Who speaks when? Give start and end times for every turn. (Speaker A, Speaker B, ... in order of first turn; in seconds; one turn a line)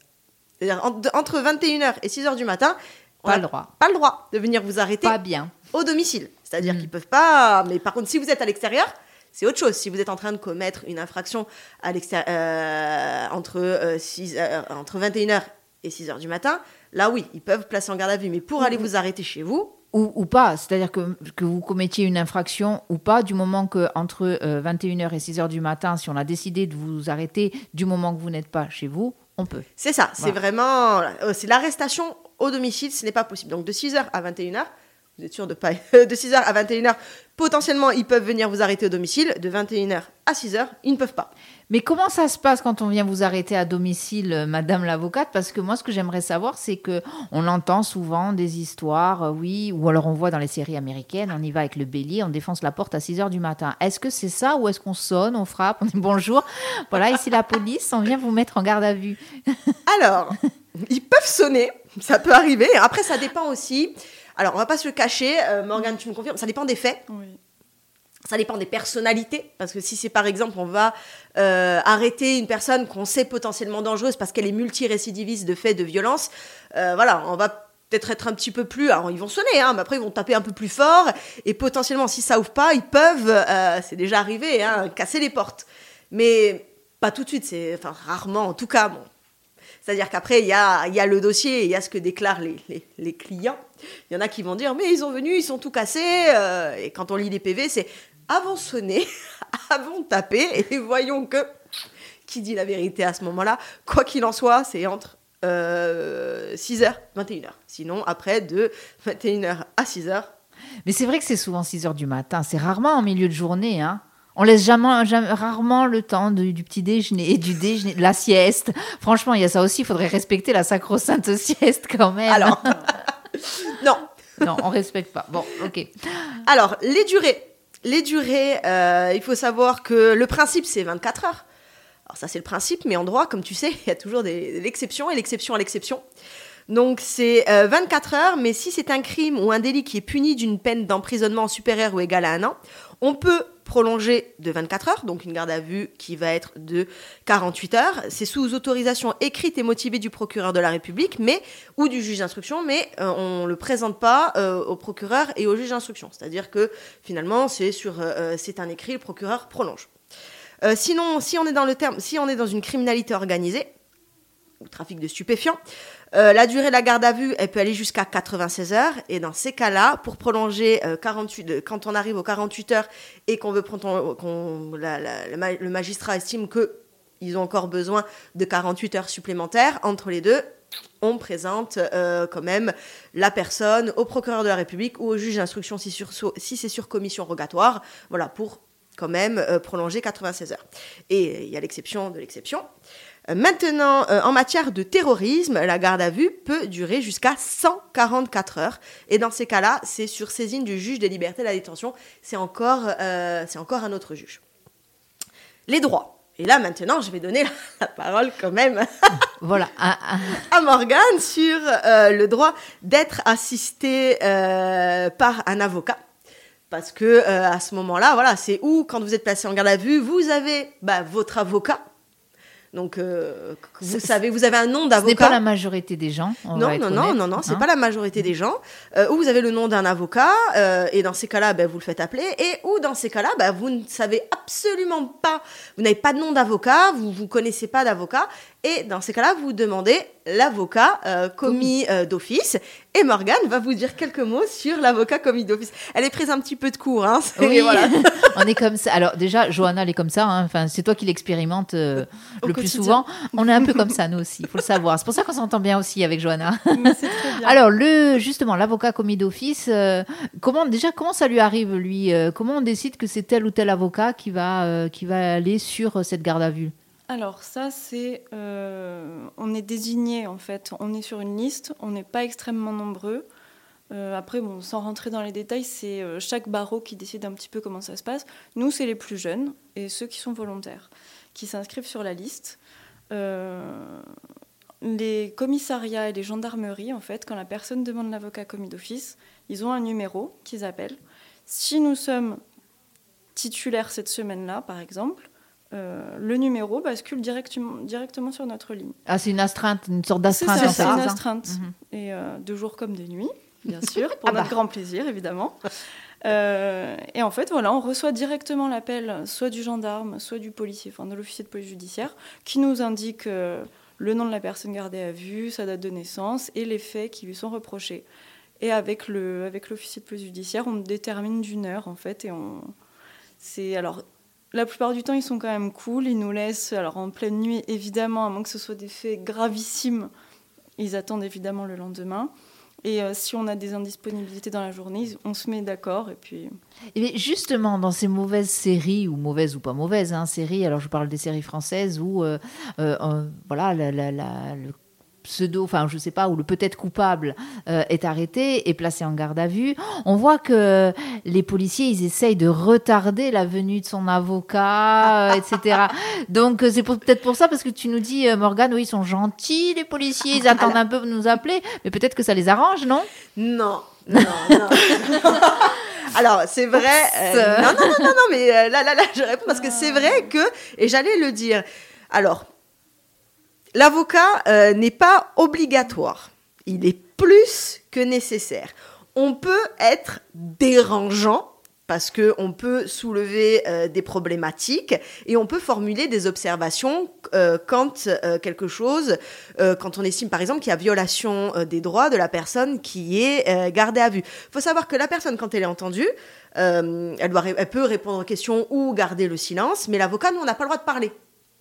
Speaker A: 0.6-5.2
Speaker B: 3.3-3.7
Speaker B: 5.0-5.5
Speaker A: 5.7-19.8
Speaker B: 19.9-29.7
Speaker A: 29.8-41.3
Speaker B: 41.7-59.8
Speaker A: 59.9-67.0
Speaker C: 67.1-67.4
Speaker A: 68.3-89.1
Speaker A: 89.8-101.5
Speaker A: 102.3-110.3
Speaker B: 110.9-122.8
Speaker A: 122.3-122.8
Speaker A: 123.6-124.0
Speaker B: 124.4-126.4
Speaker A: 126.5-131.4
Speaker A: 132.1-136.0
Speaker A: 136.7-159.9
Speaker A: 160.6-163.7
Speaker A: 164.6-165.6
Speaker A: 166.1-180.4
Speaker A: 181.0-192.7
Speaker A: 193.3-204.4
Speaker A: 205.7-209.1
Speaker B: 209.4-210.4
Speaker A: 210.4-216.0
Speaker A: 216.7-221.8
Speaker A: 222.7-225.4
Speaker B: 225.0-227.7
Speaker A: 226.5-248.3
Speaker B: 247.4-266.7
Speaker C: 252.5-253.0
Speaker C: 256.7-257.6
Speaker C: 267.1-273.3
Speaker C: 273.9-282.6
Speaker C: 283.1-284.1
Speaker C: 284.8-292.4
Speaker C: 293.4-299.0
Speaker B: 299.1-301.7
Speaker C: 300.3-305.7
Speaker A: 300.6-301.0
Speaker B: 304.3-304.5
Speaker C: 306.2-318.1
Speaker C: 318.6-322.7
Speaker C: 323.4-330.1
Speaker C: 330.8-332.3
Speaker C: 332.8-336.5
Speaker B: 336.9-363.1
Speaker A: 360.5-360.8
Speaker A: 363.4-372.5
Speaker B: 364.3-365.2
Speaker B: 367.1-368.1
Speaker C: 369.5-370.3
Speaker A: 373.7-401.1